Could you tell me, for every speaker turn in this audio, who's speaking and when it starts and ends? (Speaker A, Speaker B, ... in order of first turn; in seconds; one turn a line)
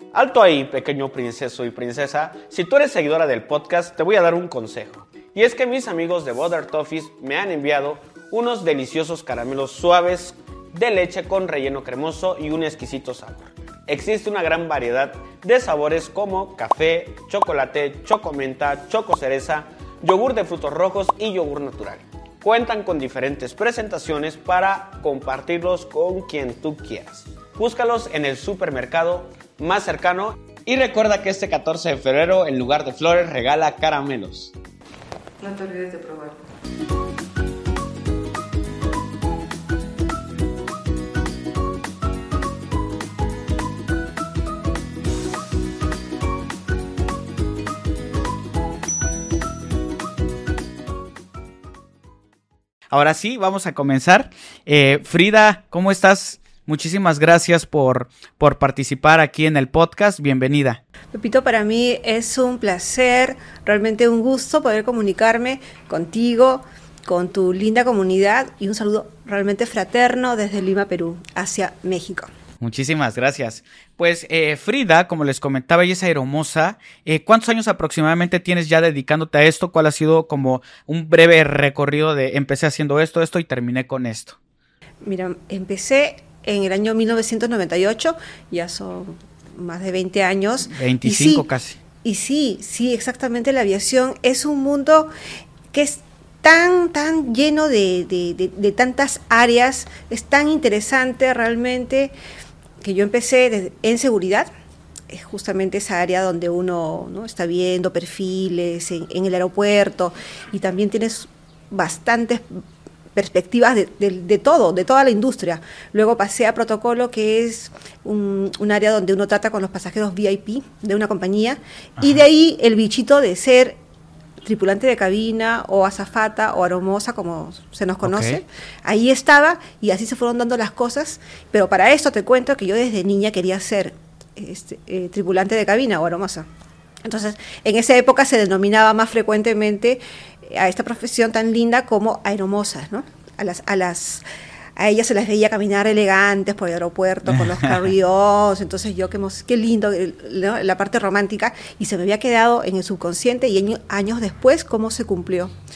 Speaker A: 0.1-34.5
Speaker B: 35.4-36.3
Speaker C: 52.9-60.8
Speaker B: 61.1-72.3
Speaker C: 72.6-84.3
Speaker B: 85.0-91.4
Speaker C: 90.7-91.8
Speaker B: 92.0-95.1
Speaker B: 95.7-102.1
Speaker B: 102.8-104.5
Speaker B: 105.1-112.6
Speaker B: 113.1-123.8
Speaker B: 124.4-136.5
Speaker C: 128.0-128.4
Speaker B: 137.0-144.2
Speaker B: 144.8-155.5
Speaker C: 147.3-147.8